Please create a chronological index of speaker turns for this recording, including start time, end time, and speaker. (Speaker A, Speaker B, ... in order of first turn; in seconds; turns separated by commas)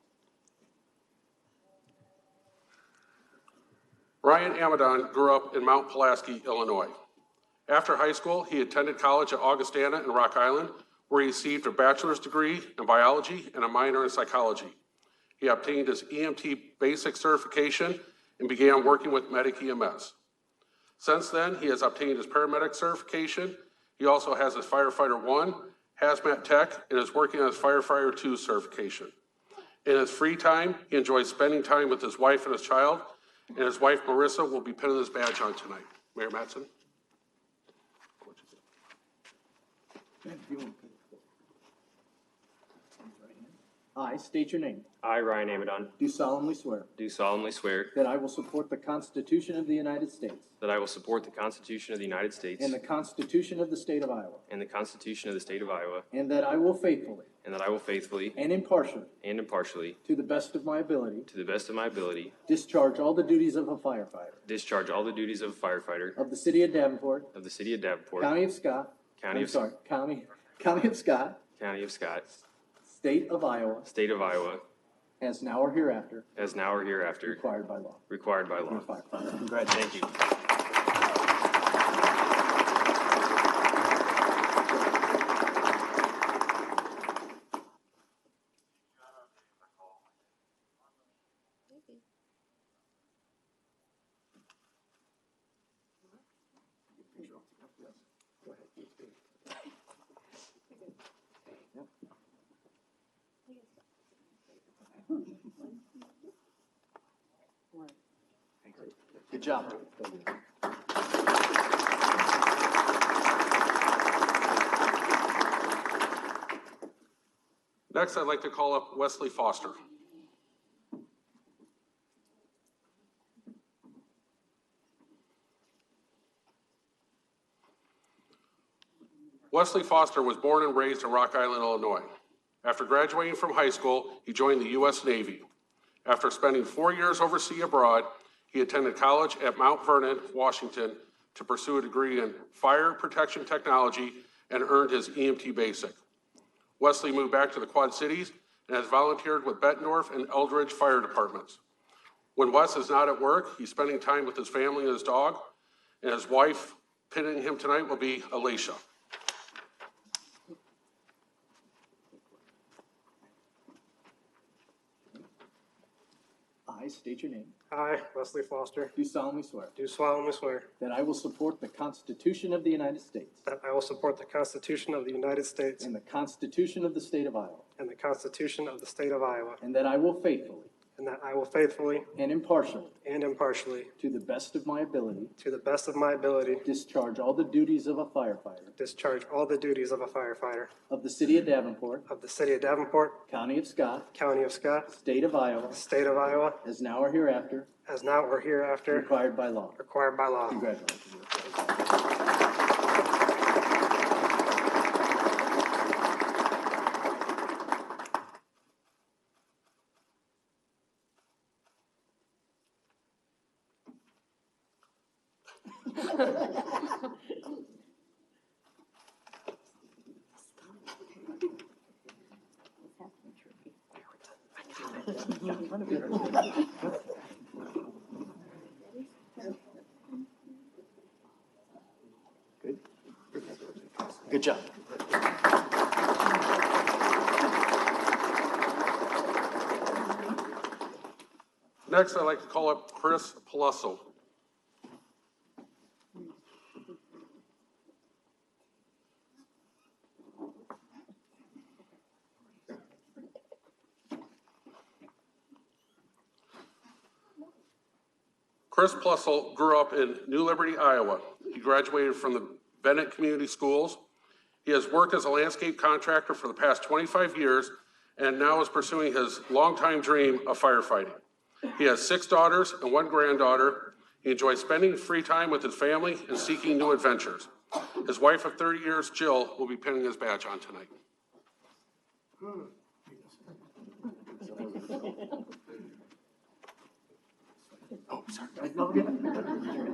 Speaker A: 4.2-6.9, Speaker A: 7.7-14.8, Speaker A: 15.4-20.1, Speaker A: 21.0-29.1, Speaker A: 29.9-36.7, Speaker B: 40.2-41.0, Speaker B: 43.2-44.9, Speaker C: 45.0-46.0, Speaker B: 46.0-46.9, Speaker C: 47.0-48.0, Speaker B: 47.9-50.5, Speaker C: 50.6-52.8, Speaker B: 52.6-54.5, Speaker C: 54.5-56.1, Speaker B: 56.1-57.3, Speaker C: 57.4-58.4, Speaker B: 58.4-59.1, Speaker C: 59.2-60.0, Speaker B: 60.0-61.3, Speaker C: 61.3-62.3, Speaker B: 62.5-64.4, Speaker C: 64.5-66.2, Speaker B: 66.2-67.3, Speaker C: 67.3-68.3, Speaker B: 68.2-71.4, Speaker C: 69.2-69.7, Speaker C: 71.6-72.4, Speaker B: 72.8-73.9, Speaker C: 73.9-74.7, Speaker B: 75.2-76.3, Speaker C: 76.4-77.4, Speaker B: 77.3-78.1, Speaker C: 78.1-79.0, Speaker B: 78.7-79.8, Speaker C: 79.6-80.1, Speaker B: 108.8-109.9, Speaker A: 117.9-119.8, Speaker A: 129.5-132.1, Speaker A: 132.6-135.4, Speaker A: 136.1-146.0, Speaker A: 146.8-151.6, Speaker A: 152.3-155.5, Speaker A: 156.0-158.8, Speaker B: 166.7-167.6, Speaker D: 167.7-168.9, Speaker B: 168.9-169.7, Speaker D: 169.8-170.7, Speaker B: 170.8-173.4, Speaker D: 173.4-175.9, Speaker B: 175.8-177.7, Speaker D: 177.8-179.6, Speaker B: 179.6-180.7, Speaker D: 181.0-182.1, Speaker B: 182.2-182.9, Speaker D: 183.0-183.9, Speaker B: 184.0-185.3, Speaker D: 185.4-186.7, Speaker B: 186.6-188.8, Speaker D: 188.8-190.7, Speaker B: 190.9-192.1, Speaker D: 192.1-193.3, Speaker B: 193.3-194.1, Speaker D: 194.1-194.9, Speaker B: 194.9-195.8, Speaker D: 195.7-196.6, Speaker B: 196.6-197.7, Speaker D: 197.9-199.1, Speaker B: 198.9-199.8, Speaker D: 199.8-200.6, Speaker B: 200.5-201.7, Speaker B: 225.9-226.2, Speaker B: 234.3-234.7, Speaker A: 241.9-244.1, Speaker A: 258.7-264.0, Speaker A: 264.6-280.9, Speaker B: 288.1-289.8